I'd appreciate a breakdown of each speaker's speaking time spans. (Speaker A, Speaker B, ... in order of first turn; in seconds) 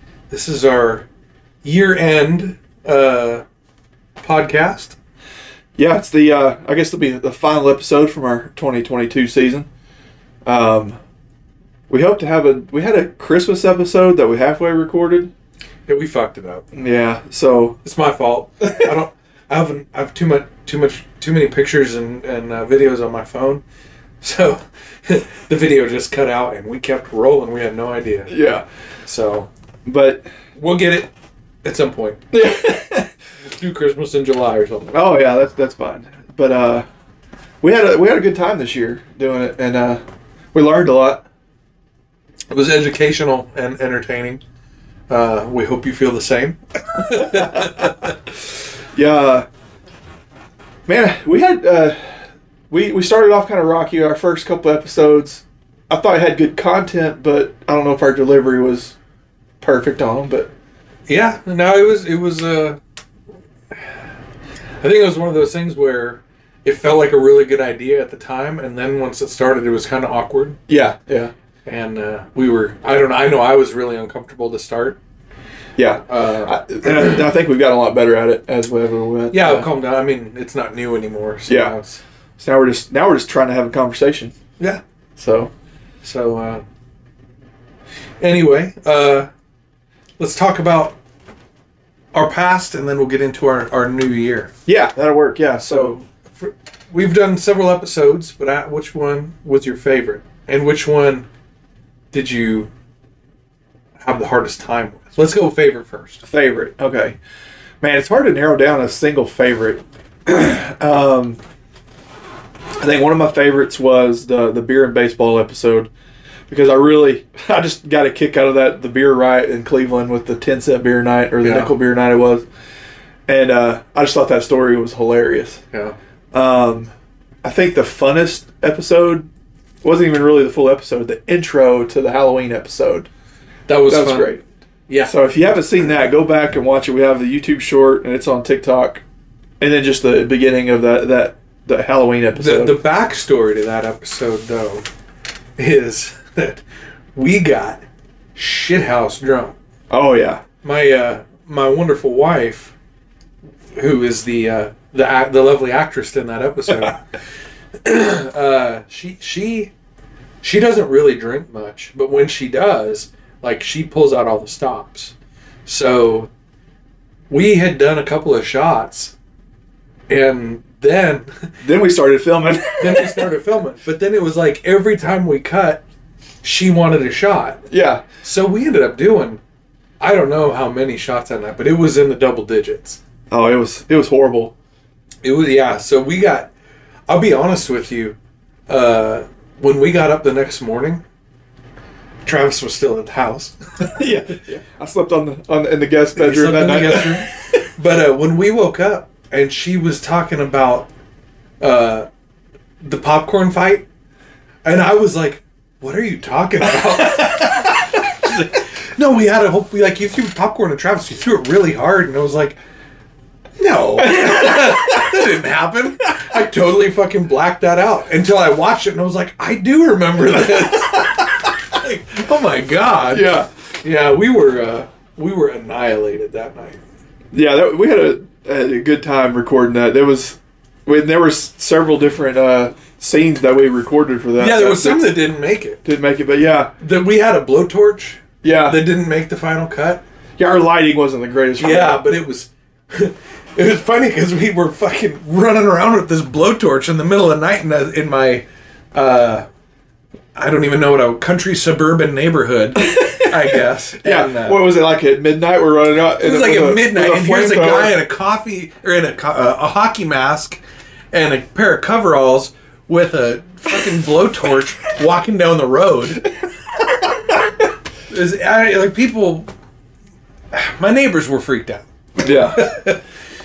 Speaker A: 0.3-1.1, 1.6-3.4, 4.2-5.0, 15.9-16.6, 17.8-23.6, 24.2-28.4, 29.1-29.5, 30.6-31.1, 31.6-32.2, 33.4-35.0, 42.5-44.4, 45.1-48.1, 61.1-62.8, 64.8-70.6, 71.7-75.0, 76.1-77.2, 79.3-82.0, 86.0-86.6, 88.2-89.3, 90.2-91.0, 92.1-94.5, 95.6-101.3, 102.1-102.7, 104.0-106.2, 121.4-121.8, 133.7-134.4, 134.9-135.1, 142.4-144.9, 145.6-146.6, 147.2-147.8, 148.4-149.6, 150.6-152.8, 153.8-157.0, 157.8-159.7, 160.4-165.1, 165.7-166.3, 167.3-169.2, 170.1-171.3, 172.8-175.8, 176.4-177.7, 178.2-179.4, 180.0-183.0, 185.2-186.5, 187.1-188.2, 188.7-191.0, 192.2-194.1, 196.2-200.9, 201.6-202.1, 202.8-203.9, 204.6-212.6, 213.6-226.8, 234.4-235.8, 236.8-240.0, 241.6-249.5, 250.3-254.6, 256.2-260.6, 261.1-266.3, 268.1-269.5, 270.5-273.0
Speaker B: 5.8-9.7, 10.4-11.0, 11.9-15.3, 16.7-17.8, 28.3-28.6, 29.9-30.3, 32.3-33.1, 34.9-36.9, 37.6-40.0, 40.5-41.3, 47.1-47.9, 48.9-49.5, 50.9-52.1, 52.7-59.0, 59.6-60.5, 70.7-71.3, 75.8-79.7, 81.5-81.8, 82.4-84.3, 85.2-85.5, 94.7-96.0, 106.2-107.2, 107.8-111.4, 112.8-115.9, 116.5-122.5, 123.3-125.6, 126.3-126.9, 127.4-129.3, 129.8-133.1, 133.9-134.4, 135.1-139.0, 139.6-142.8, 149.9-150.4, 171.6-173.3, 177.7-178.0, 183.3-184.5, 193.9-197.3, 214.0-215.1, 223.1-223.5, 227.3-235.2, 235.8-236.7, 238.4-238.8, 240.4-242.0, 254.0-258.0, 272.2-272.8